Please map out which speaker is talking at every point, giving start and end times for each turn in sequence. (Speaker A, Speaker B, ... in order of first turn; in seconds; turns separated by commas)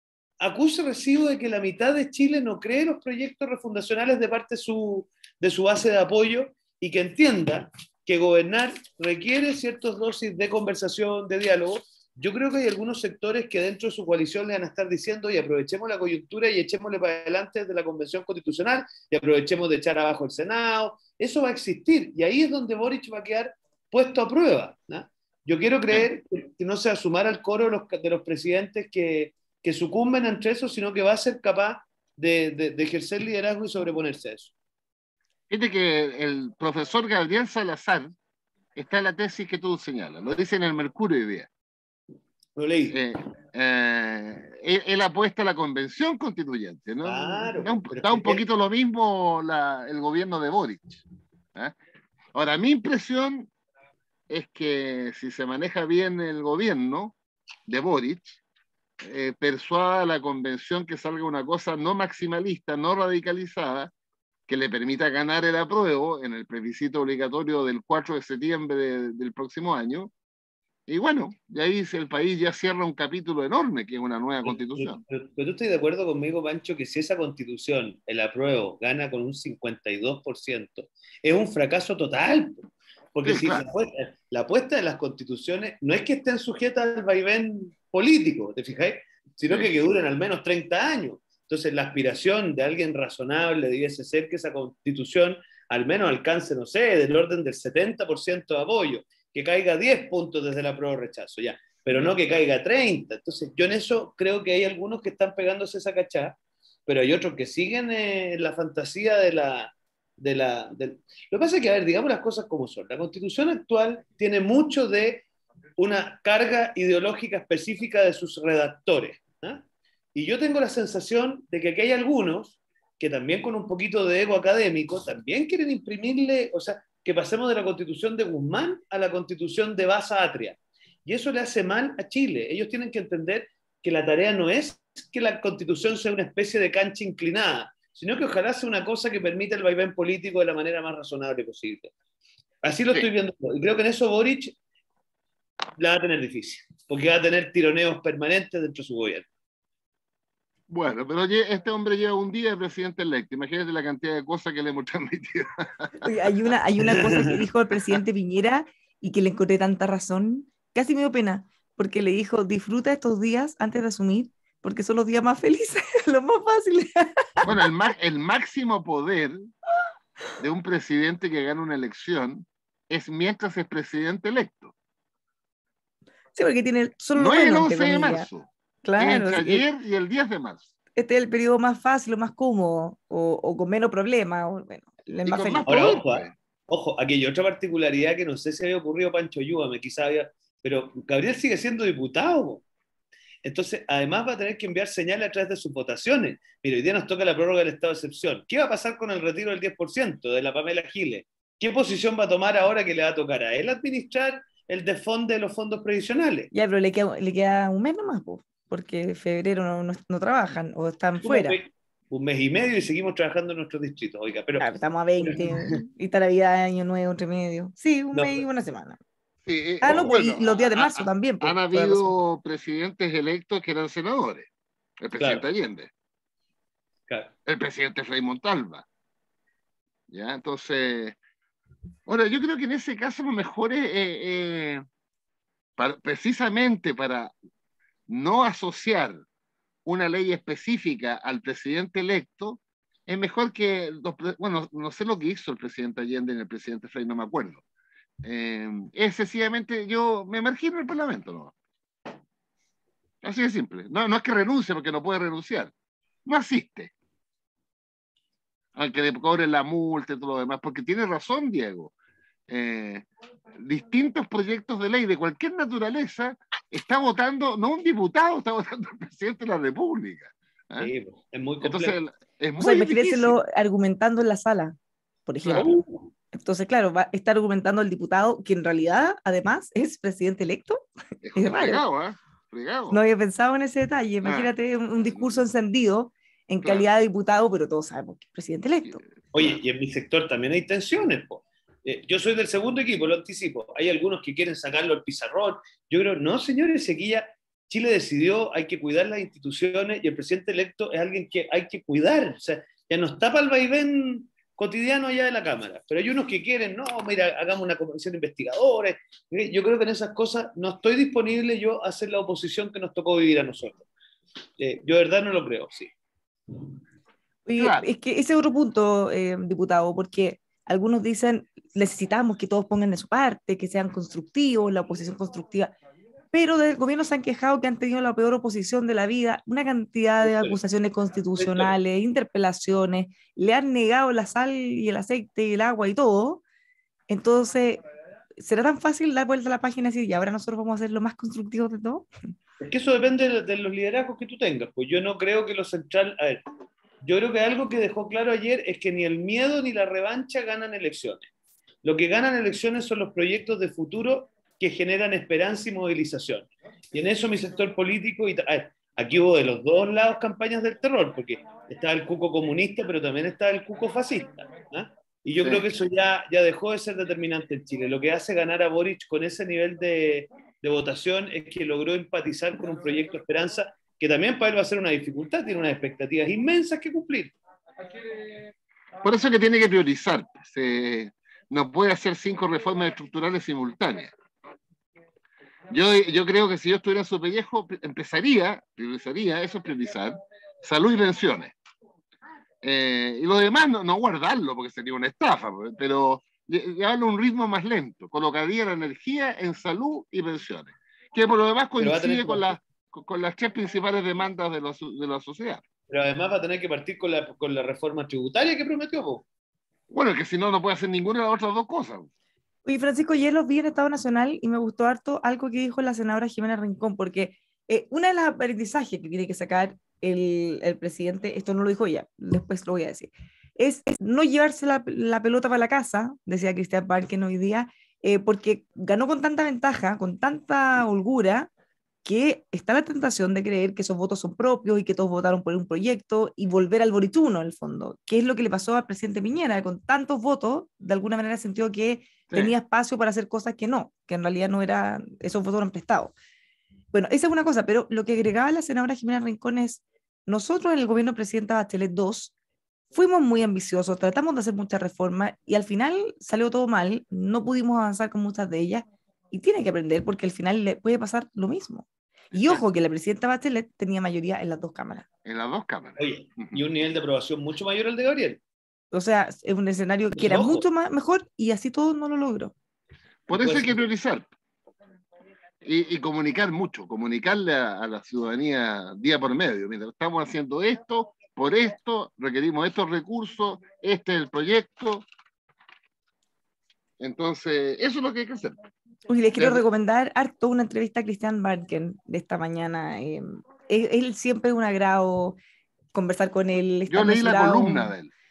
Speaker A: 0.4-34.5, Speaker B: 35.5-38.1, Speaker B: 38.7-41.5, Speaker A: 42.6-43.0, Speaker B: 42.9-50.9, Speaker A: 47.0-48.4, Speaker B: 52.3-53.5, Speaker B: 54.3-57.1, Speaker B: 57.7-58.4, Speaker B: 59.0-63.9, Speaker B: 64.5-70.1, Speaker B: 70.9-75.0, Speaker A: 74.4-115.2, Speaker B: 83.2-83.6, Speaker A: 115.8-141.9, Speaker A: 142.6-144.5, Speaker A: 145.8-149.3, Speaker B: 150.7-156.5, Speaker C: 156.0-167.5, Speaker A: 156.8-157.3, Speaker B: 167.4-169.5, Speaker B: 170.4-174.7, Speaker C: 176.3-178.3, Speaker B: 177.2-180.7, Speaker C: 178.8-179.6, Speaker C: 180.9-185.7, Speaker B: 185.2-186.3, Speaker A: 185.7-192.6, Speaker A: 193.4-206.5, Speaker C: 206.5-211.6, Speaker A: 211.2-214.7, Speaker C: 214.6-219.0, Speaker A: 215.2-215.8, Speaker A: 218.1-218.4, Speaker B: 219.4-225.9, Speaker C: 219.8-222.1, Speaker A: 225.2-225.4, Speaker B: 227.4-228.8, Speaker B: 230.1-231.2, Speaker B: 232.1-234.8, Speaker B: 235.8-237.3, Speaker B: 238.1-239.2, Speaker B: 239.8-247.6, Speaker B: 248.2-251.5, Speaker B: 253.2-255.7, Speaker B: 256.2-256.9, Speaker B: 258.7-261.9, Speaker B: 262.5-263.1, Speaker B: 263.6-270.9, Speaker A: 270.8-272.0, Speaker B: 271.6-273.4, Speaker C: 272.6-280.8, Speaker B: 275.4-275.7, Speaker A: 275.5-276.1, Speaker B: 281.2-283.0, Speaker C: 281.3-281.8, Speaker C: 282.9-289.0, Speaker B: 284.2-285.3, Speaker A: 289.3-313.9, Speaker A: 314.6-315.9, Speaker C: 317.4-325.7, Speaker B: 317.6-317.9, Speaker C: 326.3-336.4, Speaker A: 330.2-330.6, Speaker A: 331.4-331.7, Speaker C: 337.1-337.8, Speaker C: 338.4-342.1, Speaker A: 342.6-346.4, Speaker A: 347.0-351.3, Speaker A: 351.8-377.3, Speaker B: 365.4-365.6, Speaker B: 379.0-384.1, Speaker B: 385.7-391.5, Speaker B: 392.6-405.6, Speaker A: 401.8-402.6, Speaker A: 405.9-409.2, Speaker B: 409.9-412.1, Speaker C: 412.6-431.5, Speaker C: 432.0-446.1, Speaker C: 446.9-452.3, Speaker C: 452.9-465.1, Speaker B: 462.3-462.6, Speaker B: 465.2-466.6, Speaker A: 466.0-468.4, Speaker C: 468.9-472.5, Speaker A: 470.1-470.6, Speaker B: 473.3-474.3, Speaker A: 473.3-473.9, Speaker B: 475.6-485.1, Speaker B: 487.0-488.6, Speaker C: 489.1-495.4, Speaker B: 489.4-489.6, Speaker C: 495.9-497.9, Speaker B: 496.9-498.1